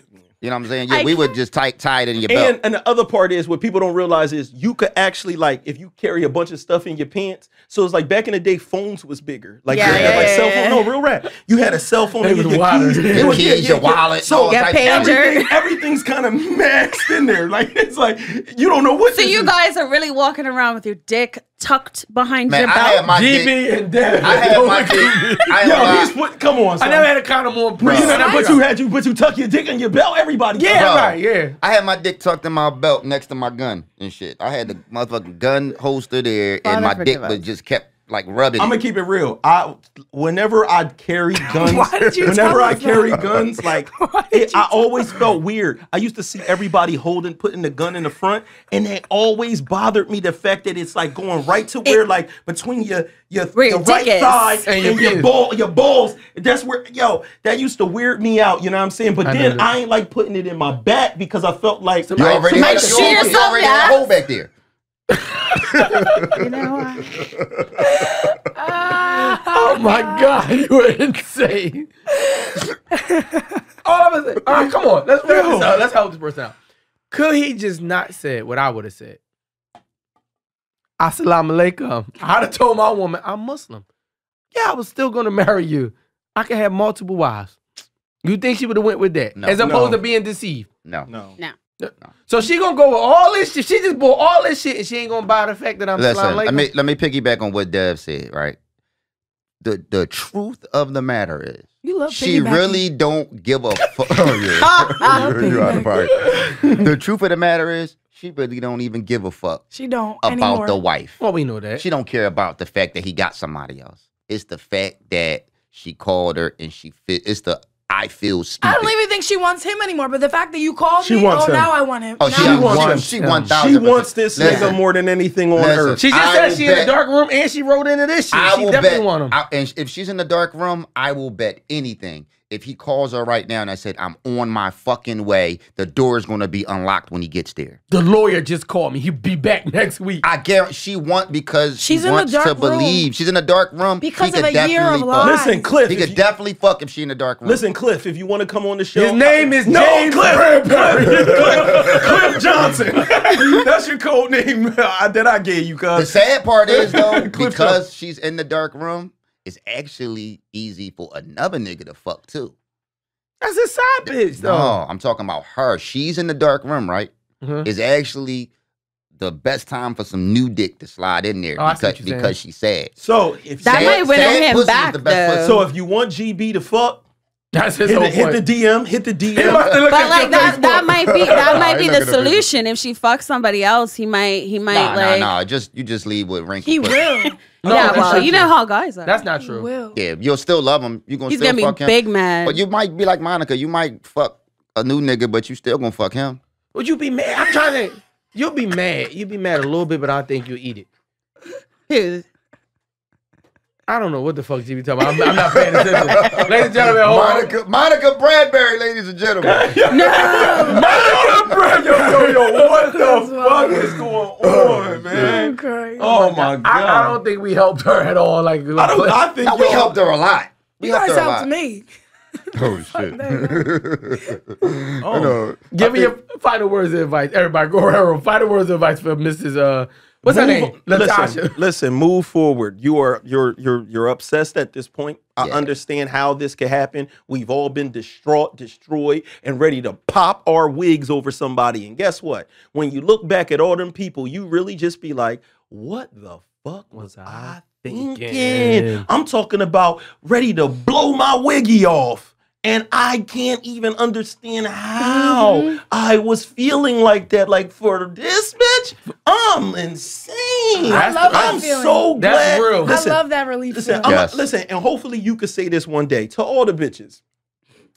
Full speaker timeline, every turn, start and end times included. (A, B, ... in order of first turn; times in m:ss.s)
0:00.4-0:02.6 A
0:00.9-0:01.3 B
0:02.3-0:19.5 C
0:09.7-0:10.9 B
0:09.8-0:10.3 A
0:12.2-0:13.5 D
0:13.1-0:15.2 A
0:14.5-0:15.6 B
0:19.1-0:23.0 B
0:22.5-0:23.6 A
0:23.1-0:25.9 D
0:24.1-0:26.1 A
0:25.6-0:27.1 C
0:26.8-0:28.6 D
0:27.8-0:30.9 C
0:27.8-0:28.2 A
0:28.1-0:28.6 E
0:30.6-0:31.6 D
0:30.7-0:38.8 A
0:36.6-0:37.4 B
0:38.6-1:03.4 C
0:41.4-0:45.3 E
0:42.0-0:42.5 A
0:53.5-0:54.6 B
0:54.6-0:55.3 D
0:59.2-0:59.7 D
1:02.1-1:03.0 D
1:02.2-1:04.5 A
1:02.5-1:04.0 B
1:05.1-1:06.4 D
1:06.3-1:07.1 B
1:07.2-1:08.0 A
1:07.9-1:10.3 E
1:08.9-1:11.9 D
1:12.3-1:13.6 E
1:13.8-1:16.6 D
1:15.3-1:15.8 C
1:17.1-1:19.2 D
1:21.0-1:23.8 D
1:24.5-1:27.6 D
1:28.2-1:30.7 D
1:29.4-1:29.6 A
1:29.6-1:30.0 C
1:31.1-1:31.4 C
1:31.8-1:36.7 D
1:36.0-1:38.6 A
1:39.6-1:49.6 A
1:41.8-1:42.8 E
1:44.6-1:46.7 D
1:45.0-1:46.1 E
1:49.7-1:50.8 E
1:50.2-1:51.2 A
1:51.2-1:51.8 D
1:51.8-1:58.9 A
1:58.6-2:02.9 E
2:01.0-2:01.7 C
2:02.2-2:04.8 A
2:02.2-2:06.0 C
2:02.4-2:03.5 D
2:04.4-2:04.7 D
2:05.6-2:06.9 A
2:06.0-2:09.4 D
2:08.3-2:17.8 A
2:17.9-2:20.2 D
2:20.2-2:27.6 A
2:21.8-2:23.0 E
2:24.0-2:25.8 E
2:25.2-2:26.2 C
2:27.4-2:36.2 C
2:29.0-2:33.6 D
2:35.9-2:42.5 A
2:36.7-2:37.8 C
2:43.4-2:44.8 D
2:44.1-2:47.1 A
2:47.4-2:47.7 D
2:47.6-2:48.5 A
2:49.2-2:52.9 A
2:51.6-2:52.4 D
2:53.0-2:54.3 C
2:53.6-2:55.7 B
2:53.6-2:55.5 A
2:55.4-2:57.0 C
2:57.5-2:58.4 D
2:57.9-2:59.7 C
2:59.3-3:01.0 D
2:59.4-2:59.9 A
2:59.7-3:05.3 B
3:00.2-3:00.8 E
3:01.0-3:02.5 A
3:04.7-3:07.1 A
3:06.6-3:07.9 E
3:07.6-3:08.5 D
3:07.6-3:09.2 B
3:07.6-3:08.3 C
3:09.0-3:09.7 D
3:09.4-3:10.0 E
3:10.0-3:16.4 A
3:11.3-3:12.6 B
3:16.7-3:20.9 D
3:21.9-3:22.2 B
3:23.9-3:27.5 D
3:25.6-3:29.8 A
3:29.4-3:37.2 C
3:29.9-3:31.1 B
3:30.4-3:33.2 D
3:32.8-3:33.9 E
3:34.4-3:35.4 A
3:35.2-3:36.2 E
3:36.0-3:39.2 D
3:38.8-3:40.0 C
3:39.4-3:41.5 A
3:40.8-3:41.9 E
3:42.5-3:43.7 E
3:42.6-3:46.2 A
3:45.0-3:45.3 C
3:45.1-3:51.6 D
3:50.2-4:27.2 C
3:55.4-3:55.7 A
4:06.9-4:09.1 D
4:15.0-4:15.8 E
4:20.8-4:22.1 E
4:20.9-4:21.7 D
4:22.2-4:23.0 D
4:22.8-4:24.2 E
4:24.0-4:24.4 A